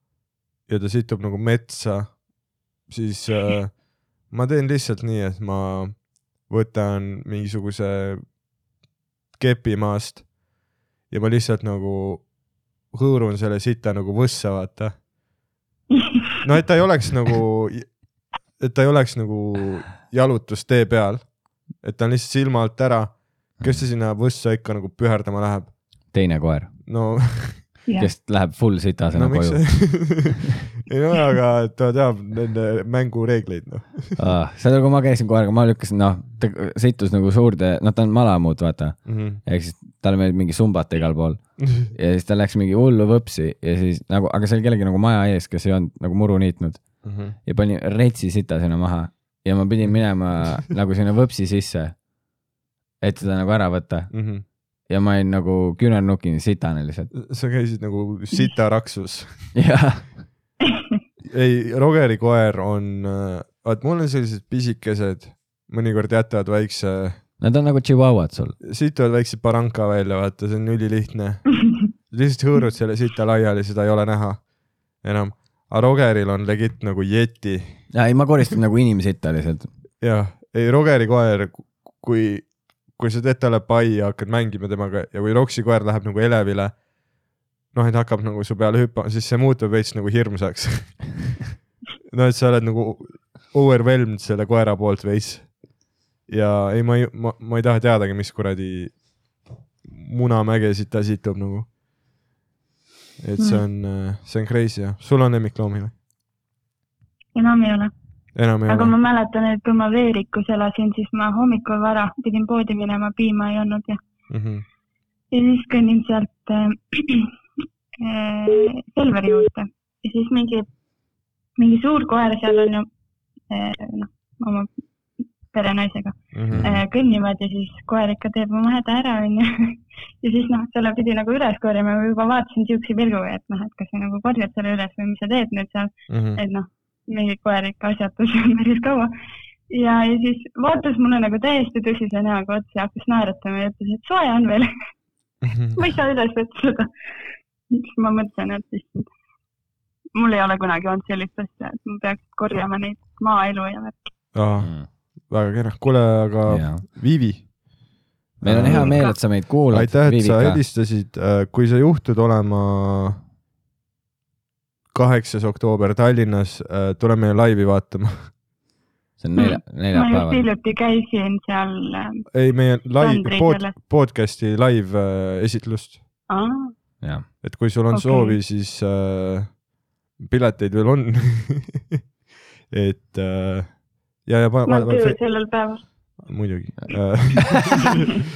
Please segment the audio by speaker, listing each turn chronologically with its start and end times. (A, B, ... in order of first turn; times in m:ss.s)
0:00.7-0:02.2 A
0:02.9-0:08.2 A
0:09.4-0:10.3 A
0:11.1-0:12.3 A
0:12.9-0:15.0 A
0:16.4-0:18.0 A
0:18.6-0:25.7 A
0:26.1-0:26.8 B
0:26.9-0:27.7 A
0:28.0-0:30.2 B
0:29.1-0:34.2 A
0:34.2-0:46.9 B
0:39.1-0:39.4 A
0:47.0-0:47.4 A
0:47.4-0:52.0 B
0:53.0-0:54.2 B
0:54.1-0:54.4 A
0:54.9-0:57.1 B
0:57.1-0:59.6 A
0:59.5-1:00.3 B
1:01.3-1:07.2 A
1:07.4-1:08.6 B
1:08.6-1:14.4 A
1:15.0-1:17.8 A
1:17.9-1:19.7 B
1:20.0-1:26.8 A
1:27.7-1:31.4 A
1:32.1-1:35.6 A
1:36.3-1:39.0 A
1:39.8-1:41.7 A
1:43.2-1:45.9 A
1:47.4-1:47.9 C
1:48.4-1:48.9 A
1:48.7-1:54.0 C
1:54.3-1:54.6 A
1:55.3-1:57.3 C
1:58.0-2:00.7 C
2:01.6-2:02.9 C
2:03.5-2:04.7 C
2:05.5-2:19.1 C
2:06.3-2:06.8 A
2:06.5-2:06.8 B
2:16.1-2:16.4 A
2:19.7-2:24.7 C
2:25.4-2:25.8 A
2:25.8-2:26.9 C
2:27.7-2:29.1 C
2:30.2-2:34.0 C
2:34.4-2:37.5 A
2:34.6-2:34.9 B
2:36.5-2:36.8 B
2:38.4-2:40.6 B
2:38.4-2:43.2 A
2:44.9-2:48.3 A
2:49.2-2:50.5 B
2:49.4-2:52.3 C
2:52.3-2:56.0 A
2:53.0-2:53.7 C
2:56.3-2:56.7 C
2:57.0-2:57.3 B
2:57.4-2:59.6 A
2:57.9-2:58.4 C
3:00.2-3:02.0 A
3:02.7-3:05.2 A
3:04.7-3:05.8 C
3:06.2-3:08.0 A